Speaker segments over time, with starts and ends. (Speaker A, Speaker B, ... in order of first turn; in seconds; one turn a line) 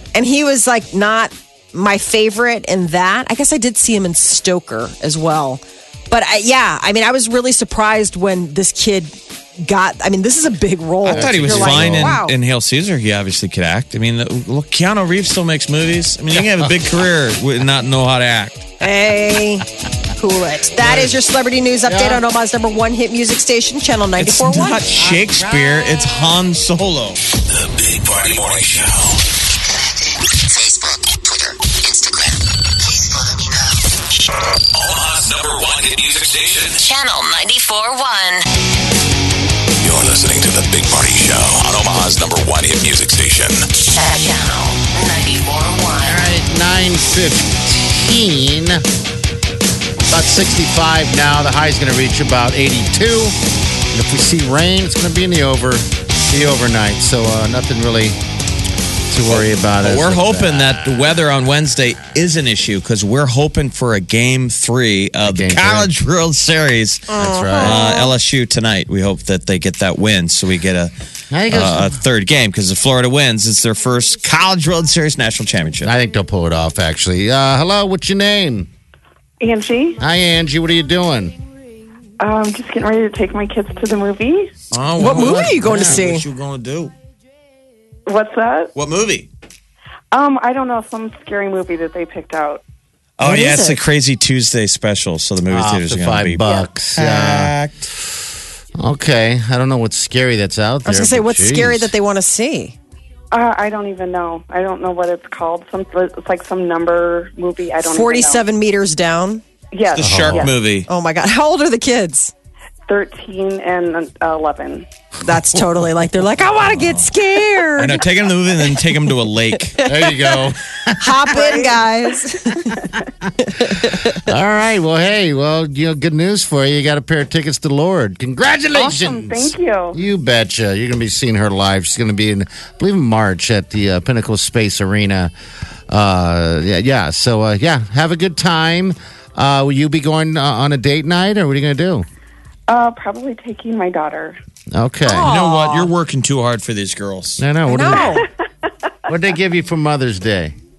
Speaker A: 0.1-12.3
Speaker B: 11.0-18.8
Speaker C: 11.1-12.2
Speaker C: 16.3-16.7
Speaker A: 18.8-24.8
Speaker B: 20.8-21.1
Speaker C: 21.8-22.2
Speaker B: 24.2-27.2
Speaker C: 24.9-26.3
Speaker D: 27.6-29.1
Speaker E: 30.5-32.3
Speaker D: 34.8-36.8
Speaker E: 36.8-38.5
Speaker D: 39.8-43.6
Speaker E: 43.9-46.2
Speaker C: 46.0-48.8
Speaker C: 50.1-53.3
Speaker C: 53.9-58.2
Speaker C: 59.1-61.2
Speaker B: 59.3-70.9
Speaker C: 65.2-65.9
Speaker A: 67.1-68.1
Speaker C: 67.2-67.8
Speaker C: 71.3-72.0
Speaker B: 71.5-75.9
Speaker C: 75.8-78.7
Speaker F: 79.4-80.0
Speaker C: 80.0-81.3
Speaker F: 82.2-84.5
Speaker B: 84.7-86.9
Speaker A: 85.0-86.2
Speaker C: 85.2-86.0
Speaker F: 88.0-88.7
Speaker B: 88.7-89.3
Speaker F: 90.1-92.6
Speaker B: 93.2-97.9
Speaker A: 93.2-93.8
Speaker C: 95.5-97.5
Speaker F: 96.4-96.7
Speaker C: 98.8-101.9
Speaker A: 100.8-102.8
Speaker F: 103.3-108.4
Speaker A: 107.8-109.4
Speaker F: 109.7-110.6
Speaker B: 109.9-110.9
Speaker C: 110.0-110.5
Speaker A: 110.8-112.3
Speaker F: 112.9-114.9
Speaker A: 115.2-118.0
Speaker B: 116.6-117.1
Speaker B: 117.8-119.8
Speaker A: 119.7-120.3
Speaker C: 119.8-121.5
Speaker A: 121.0-122.7
Speaker F: 121.3-121.8
Speaker C: 123.6-135.3
Speaker F: 128.7-130.0
Speaker C: 135.9-142.1
Speaker F: 142.7-144.4
Speaker C: 144.7-145.3
Speaker A: 145.0-145.9
Speaker B: 145.2-147.4
Speaker C: 147.4-148.2
Speaker A: 147.6-148.2
Speaker F: 147.9-148.3
Speaker C: 149.1-150.5